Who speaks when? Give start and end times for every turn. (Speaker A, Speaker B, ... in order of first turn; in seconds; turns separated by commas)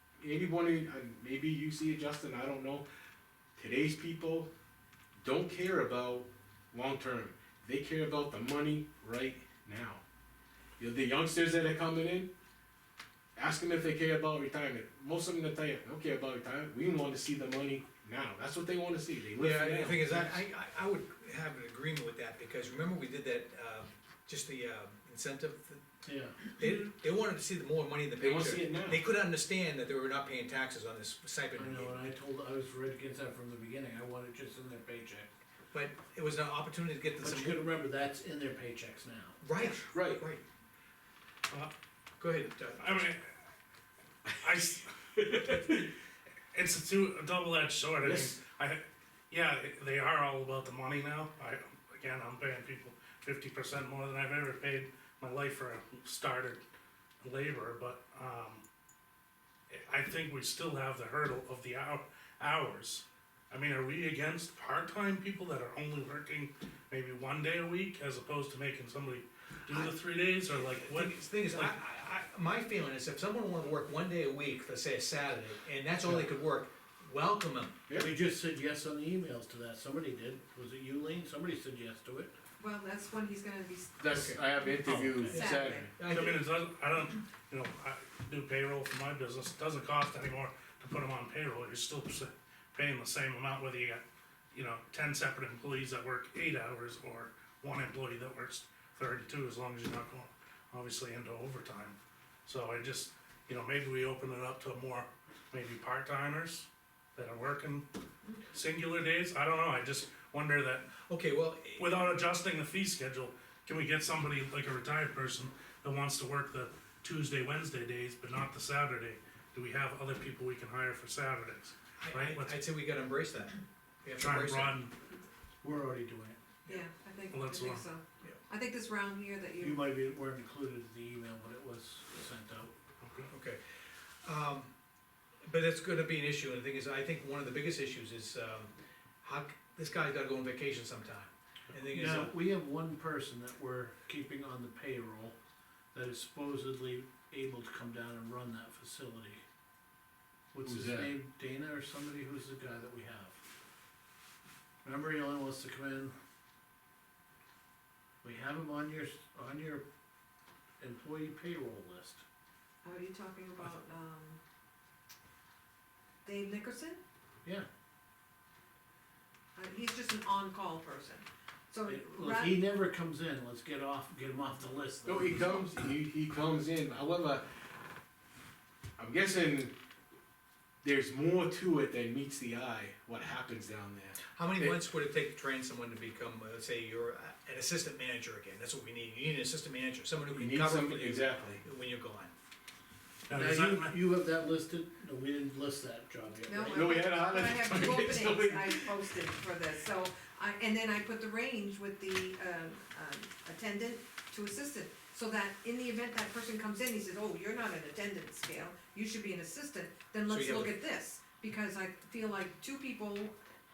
Speaker A: 0.2-2.9, Speaker A: 3.6-4.5, Speaker A: 5.2-10.0, Speaker A: 10.8-12.3, Speaker A: 13.4-20.4, Speaker B: 19.4-32.1, Speaker C: 26.0-26.5, Speaker A: 28.2-29.0, Speaker C: 31.6-35.3, Speaker B: 35.7-37.7, Speaker C: 37.2-39.4, Speaker B: 39.4-40.4, Speaker A: 39.9-40.2, Speaker B: 42.2-43.0, Speaker D: 42.8-43.4, Speaker D: 44.4-45.9, Speaker D: 46.5-56.6, Speaker A: 48.0-48.3, Speaker D: 57.2-58.6, Speaker D: 59.7-71.8, Speaker B: 69.7-70.0, Speaker B: 70.5-77.8, Speaker C: 78.0-82.4, Speaker E: 82.6-84.7, Speaker A: 84.0-85.9, Speaker B: 84.1-84.4, Speaker C: 84.8-85.4, Speaker E: 85.3-85.9, Speaker B: 85.3-86.5, Speaker D: 86.0-107.8, Speaker D: 108.5-111.0, Speaker B: 111.1-112.1, Speaker D: 111.8-122.6, Speaker B: 122.0-124.8, Speaker D: 124.2-125.0, Speaker C: 125.6-126.4, Speaker E: 126.7-129.8, Speaker D: 127.3-127.9, Speaker C: 129.6-132.7, Speaker D: 133.0-133.3, Speaker B: 133.3-133.6, Speaker B: 134.2-134.7, Speaker B: 135.4-142.3, Speaker C: 141.9-145.4, Speaker C: 145.9-149.4, Speaker C: 150.5-153.4, Speaker A: 150.7-151.1, Speaker C: 154.8-156.1, Speaker C: 158.2-159.8, Speaker C: 160.8-162.2, Speaker E: 162.8-164.4, Speaker E: 166.2-167.0, Speaker E: 169.6-172.6, Speaker C: 171.9-175.6, Speaker A: 175.1-177.5, Speaker A: 179.0-179.7, Speaker A: 180.8-184.8, Speaker B: 184.3-192.3, Speaker A: 190.3-191.6, Speaker D: 193.3-193.9, Speaker C: 193.3-196.9, Speaker E: 196.5-213.4, Speaker A: 196.7-199.2, Speaker B: 210.3-210.7